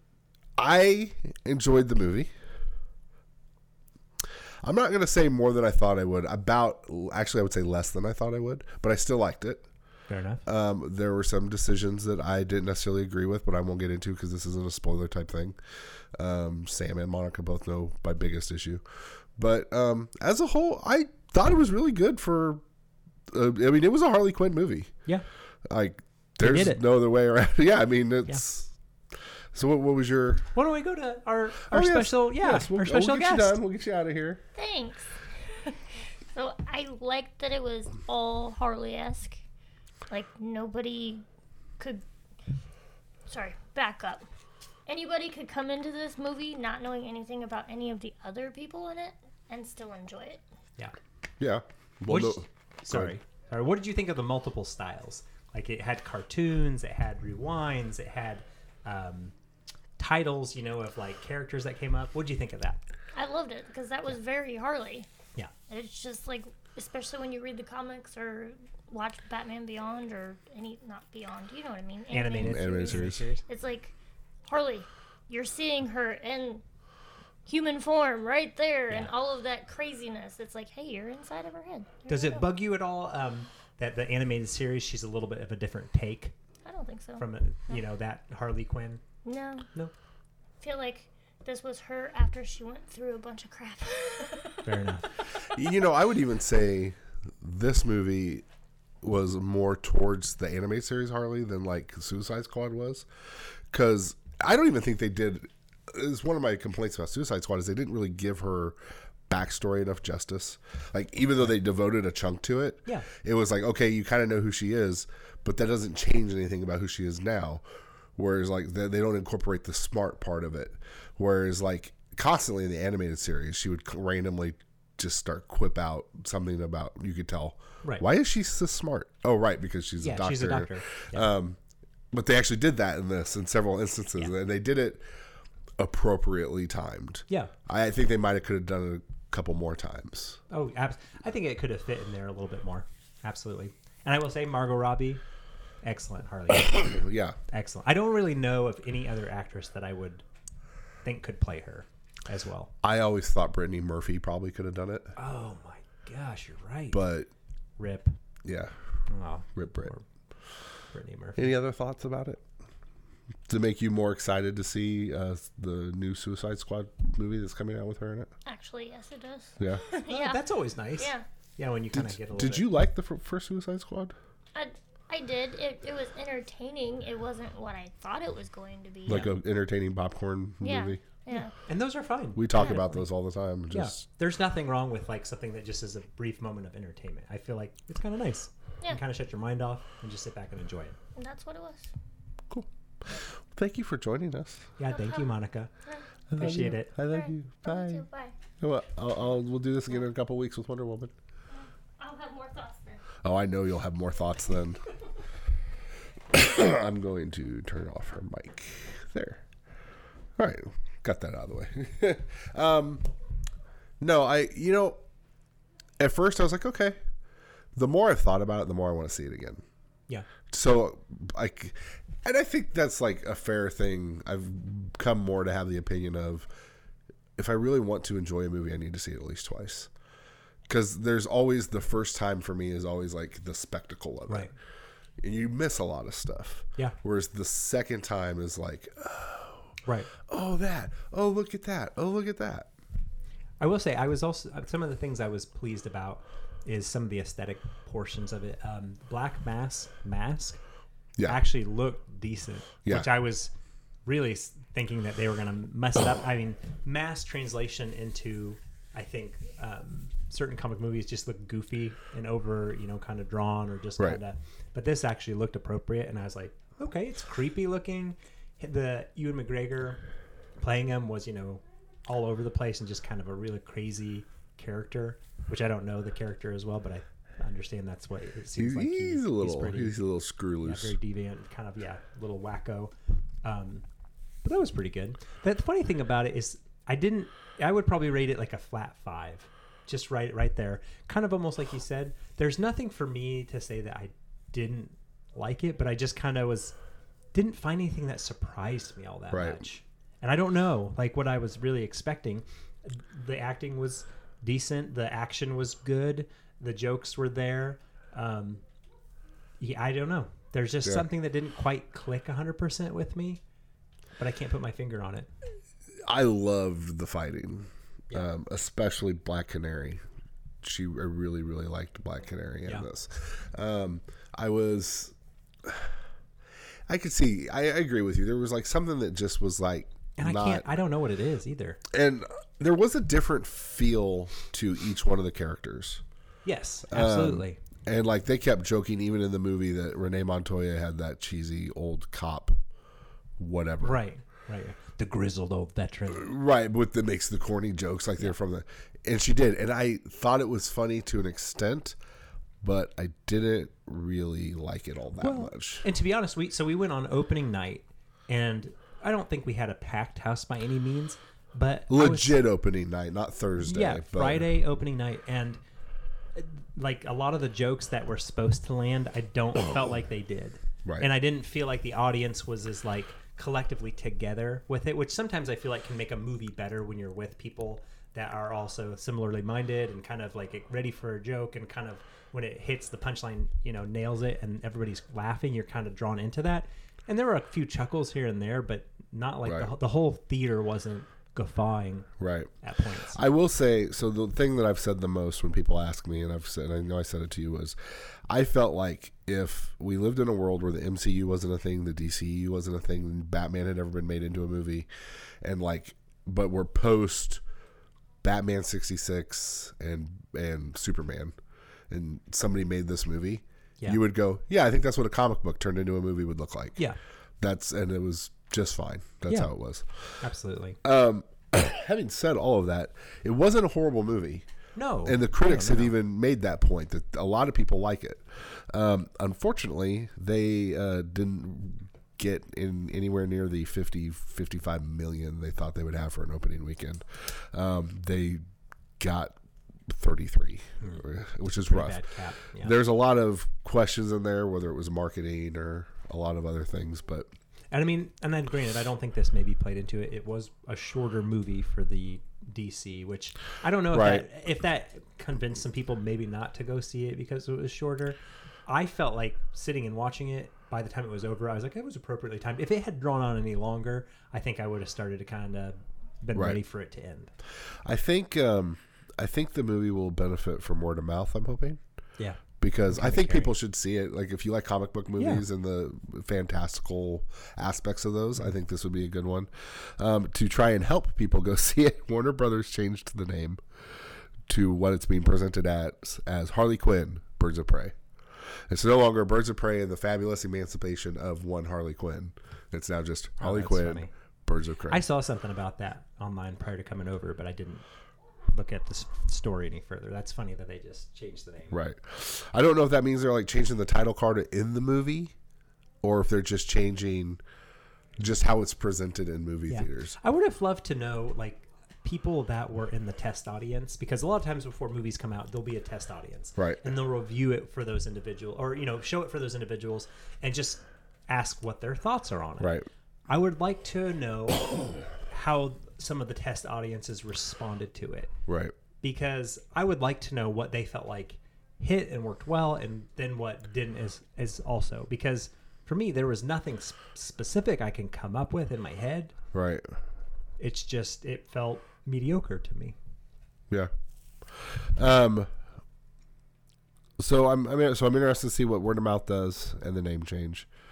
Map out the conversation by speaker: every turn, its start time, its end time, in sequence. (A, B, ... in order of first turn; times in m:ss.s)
0:00.6-0:02.3 A
0:04.6-0:09.6 A
0:10.1-0:10.4 B
0:10.5-0:15.6 A
0:16.2-0:18.8 A
0:19.4-0:22.6 A
0:23.3-0:24.9 A
0:25.7-0:28.7 A
0:26.4-0:26.8 B
0:29.5-0:30.4 A
0:30.6-0:33.6 B
0:31.7-0:34.4 A
0:34.6-0:35.8 C
0:36.3-0:39.4 C
0:40.1-0:41.2 C
0:41.8-0:42.0 C
0:43.3-0:44.3 C
0:44.9-0:50.4 C
0:51.4-0:53.2 A
0:52.1-0:59.3 B
1:00.0-1:02.8 B
1:03.1-1:05.1 C
1:05.7-1:13.9 C
1:12.1-1:13.4 B
1:12.4-1:13.2 A
1:14.5-1:16.6 C
1:17.5-1:22.5 C
1:22.1-1:26.4 B
1:26.6-1:27.8 C
1:27.2-1:29.0 B
1:29.2-1:29.7 C
1:30.6-1:34.6 C
1:34.6-1:35.1 B
1:35.5-1:38.4 A
1:39.0-1:43.1 A
1:43.7-1:48.8 A
1:49.3-1:57.6 A
1:58.2-2:11.6 A
2:10.0-2:11.3 B
2:12.1-2:15.0 A
2:15.8-2:20.4 A
2:20.5-2:25.2 B
2:25.8-2:27.0 B
2:26.8-2:27.4 A
2:27.5-2:30.2 B
2:31.0-2:32.7 B
2:32.8-2:35.1 A
2:35.2-2:37.0 B
2:36.9-2:37.3 A
2:37.8-2:38.1 B
2:38.4-2:38.7 A
2:39.1-2:40.0 B
2:39.6-2:39.9 A
2:40.9-2:41.5 B
2:41.4-2:42.4 A
2:43.5-2:48.3 A
2:48.4-2:50.4 C
2:50.0-2:52.7 B
2:51.0-2:51.2 C
2:51.9-2:54.2 A
2:54.6-2:59.3 C
2:59.1-3:01.0 A
3:00.6-3:01.5 C
3:01.4-3:03.1 B
3:02.4-3:04.0 A
3:03.7-3:11.0 B
3:11.2-3:11.9 C
3:12.5-3:14.7 A
3:14.8-3:15.7 B
3:14.9-3:15.3 C
3:15.9-3:18.3 C
3:16.3-3:18.1 A
3:16.4-3:16.9 B
3:18.6-3:21.1 A
3:21.5-3:23.0 C
3:23.2-3:24.8 A
3:26.3-3:29.4 A
3:30.4-3:33.1 A
3:34.0-3:35.0 A
3:36.0-3:37.0 A
3:37.8-3:39.6 A
3:40.5-3:46.5 A
3:47.4-3:49.9 A
3:50.7-3:54.5 A
3:55.2-3:59.7 A
3:59.9-4:00.1 B
4:00.3-4:02.7 A
4:03.6-4:10.6 B
4:11.2-4:13.5 B
4:14.0-4:30.0 B
4:30.6-4:40.0 B
4:38.6-4:41.0 A
4:40.6-4:42.9 B
4:43.4-4:43.8 B
4:44.4-4:56.8 B
4:57.3-5:08.6 B
4:59.3-4:59.6 A
5:09.6-5:13.4 B
5:14.2-5:15.3 B
5:16.0-5:20.0 A
5:20.6-5:25.9 A
5:26.9-5:30.7 A
5:30.2-5:31.8 B
5:31.9-5:36.0 A
5:36.4-5:37.6 B
5:36.9-5:42.6 A
5:43.4-5:44.0 A
5:43.8-5:46.3 B
5:46.1-5:52.0 A
5:52.6-5:55.9 A
5:55.2-6:02.4 B
6:01.9-6:04.5 A
6:03.6-6:05.6 B
6:06.4-6:33.2 B
6:29.4-6:29.7 A
6:32.2-6:32.5 A
6:33.1-6:37.8 A
6:38.3-6:44.9 A
6:45.4-6:47.4 A
6:48.2-6:51.4 A
6:51.9-6:56.8 A
6:57.4-7:00.2 A
7:00.2-7:00.8 B
7:00.8-7:04.5 A
7:04.8-7:05.9 B
7:05.0-7:18.4 A
7:19.0-7:19.4 A
7:19.9-7:22.0 A
7:21.5-7:22.7 B
7:22.6-7:27.3 A
7:27.7-7:47.3 B
7:33.9-7:34.3 A
7:46.3-7:46.6 A
7:47.8-7:51.8 A
7:52.2-7:53.5 B
7:52.6-8:03.6 A
7:55.2-7:55.4 B
8:04.5-8:08.0 A
8:08.7-8:15.0 A
8:13.4-8:14.1 B
8:14.9-8:17.8 B
8:18.5-8:21.7 B
8:21.7-8:25.3 A
8:26.0-8:27.4 A
8:28.2-8:30.2 A
8:29.7-8:42.7 B
8:36.6-8:36.9 A
8:42.6-8:42.9 A
8:43.3-8:48.3 B
8:48.5-8:48.7 A
8:49.0-8:59.4 B
8:59.5-8:59.9 A
9:00.6-9:03.0 B
9:04.6-9:05.5 A
9:07.2-9:10.7 A